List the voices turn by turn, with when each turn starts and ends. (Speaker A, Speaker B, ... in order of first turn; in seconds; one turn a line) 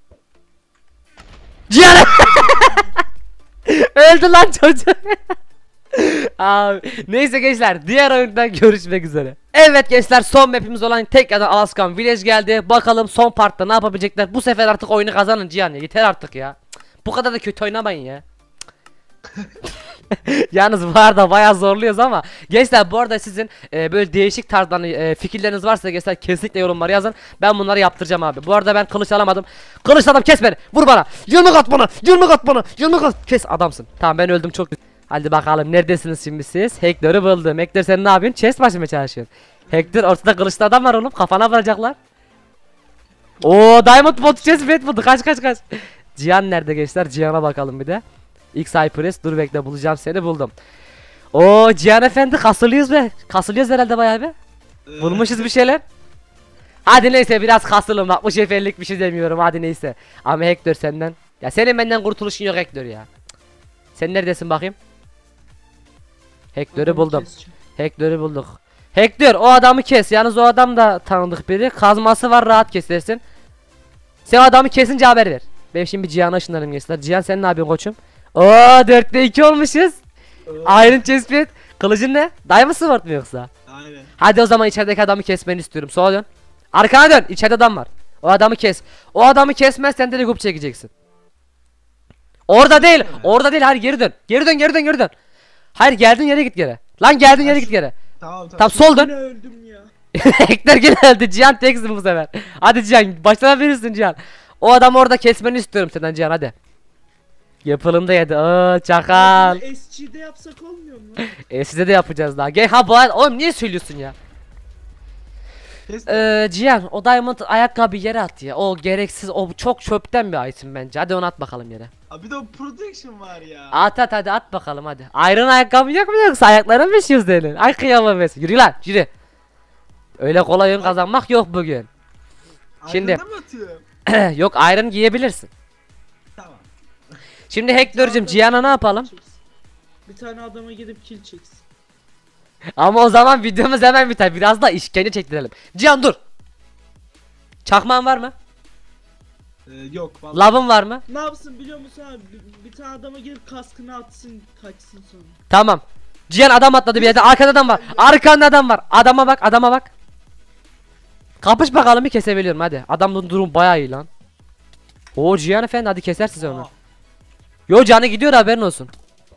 Speaker A: 1.7-2.9
Speaker A: 3.7-5.2
Speaker A: 5.9-18.2
Speaker A: 20.1-42.0
Speaker B: 39.7-40.0
Speaker A: 43.4-45.6
Speaker A: 46.1-48.0
Speaker A: 48.5-50.5
Speaker A: 51.3-54.3
Speaker C: 54.9-55.5
Speaker A: 55.0-55.8
Speaker A: 56.8-63.1
Speaker A: 63.9-64.8
Speaker A: 66.5-73.2
Speaker B: 66.7-67.6
Speaker A: 74.2-80.0
Speaker C: 80.5-81.1
Speaker A: 80.6-83.5
Speaker C: 83.7-84.1
Speaker A: 84.2-90.9
Speaker A: 92.5-95.1
Speaker C: 92.6-93.3
Speaker A: 95.7-97.9
Speaker C: 97.4-99.0
Speaker A: 98.6-99.1
Speaker B: 98.8-99.9
Speaker A: 100.1-106.5
Speaker A: 107.6-109.6
Speaker B: 109.1-111.3
Speaker A: 111.4-114.2
Speaker C: 115.9-116.3
Speaker A: 116.1-121.9
Speaker C: 122.1-123.8
Speaker A: 123.7-129.1
Speaker A: 130.2-131.9
Speaker C: 132.8-133.8
Speaker A: 132.9-133.2
Speaker A: 134.1-135.5
Speaker C: 136.4-136.7
Speaker A: 137.5-139.1
Speaker B: 137.8-139.4
Speaker B: 140.1-141.6
Speaker A: 142.8-146.2
Speaker A: 147.6-148.3
Speaker C: 149.7-150.6
Speaker A: 150.3-151.0
Speaker B: 151.1-155.4
Speaker A: 155.5-159.9
Speaker C: 156.9-158.2
Speaker A: 161.4-164.1
Speaker A: 165.2-166.7
Speaker C: 166.4-166.7
Speaker A: 167.7-168.9